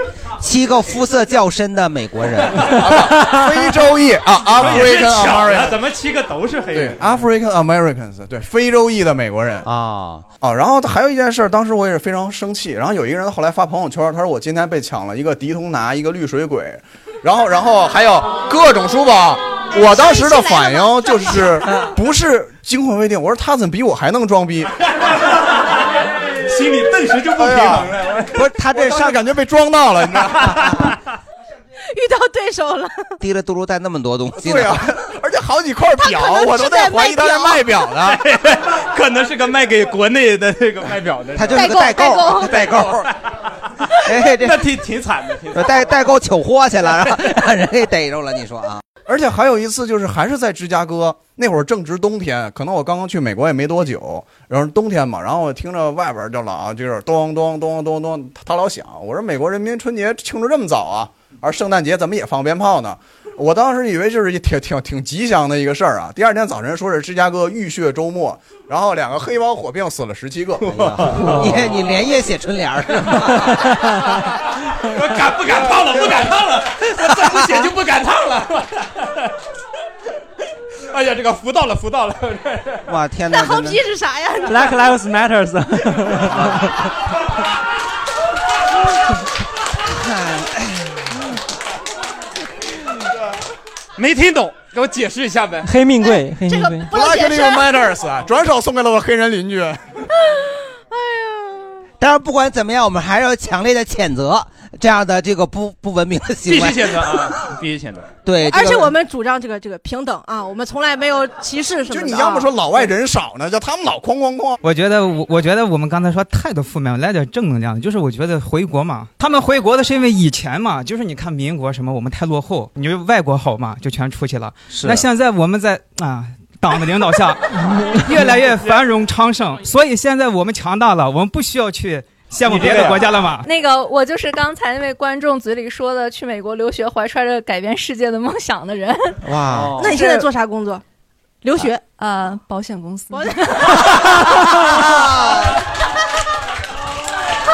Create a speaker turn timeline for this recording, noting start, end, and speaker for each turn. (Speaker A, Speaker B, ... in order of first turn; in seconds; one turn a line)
Speaker A: 0.4-3.0
Speaker B: 2.5-3.7
Speaker C: 2.8-5.8
Speaker B: 4.5-7.0
Speaker C: 6.7-9.7
Speaker A: 9.6-10.2
Speaker C: 10.4-24.7
Speaker D: 20.0-21.1
Speaker B: 26.4-28.4
Speaker C: 27.4-27.9
Speaker A: 28.3-29.2
Speaker C: 28.7-30.5
Speaker B: 30.4-30.9
Speaker A: 30.6-30.9
Speaker D: 31.8-33.1
Speaker A: 33.2-34.8
Speaker C: 34.4-38.2
Speaker D: 35.9-37.7
Speaker B: 38.0-43.1
Speaker A: 41.3-43.0
Speaker D: 41.5-42.5
Speaker A: 44.0-44.7
Speaker B: 44.3-46.0
Speaker A: 45.5-48.8
Speaker C: 49.1-70.7
Speaker A: 70.7-73.7
Speaker B: 71.0-71.5
Speaker B: 74.7-79.2
Speaker B: 80.9-82.8
Speaker A: 82.9-83.8
Speaker D: 83.3-84.9
Speaker E: 84.5-86.6
Speaker A: 86.2-86.7
Speaker A: 89.9-91.1
Speaker B: 94.0-95.7
Speaker E: 95.6-97.0
Speaker D: 96.0-97.9
Speaker C: 96.9-99.8
Speaker D: 100.9-101.8
Speaker A: 102.0-107.4
Speaker B: 106.4-108.1
Speaker A: 108.2-109.0
Speaker D: 108.5-112.8
Speaker C: 111.9-114.6
Speaker F: 114.6-133.5
Speaker B: 132.4-133.2
Speaker G: 133.4-139.3
Speaker A: 139.2-139.8
Speaker B: 139.5-140.0
Speaker D: 139.8-140.8
Speaker G: 139.9-140.2
Speaker D: 141.4-141.9
Speaker G: 142.0-144.2
Speaker D: 143.1-145.4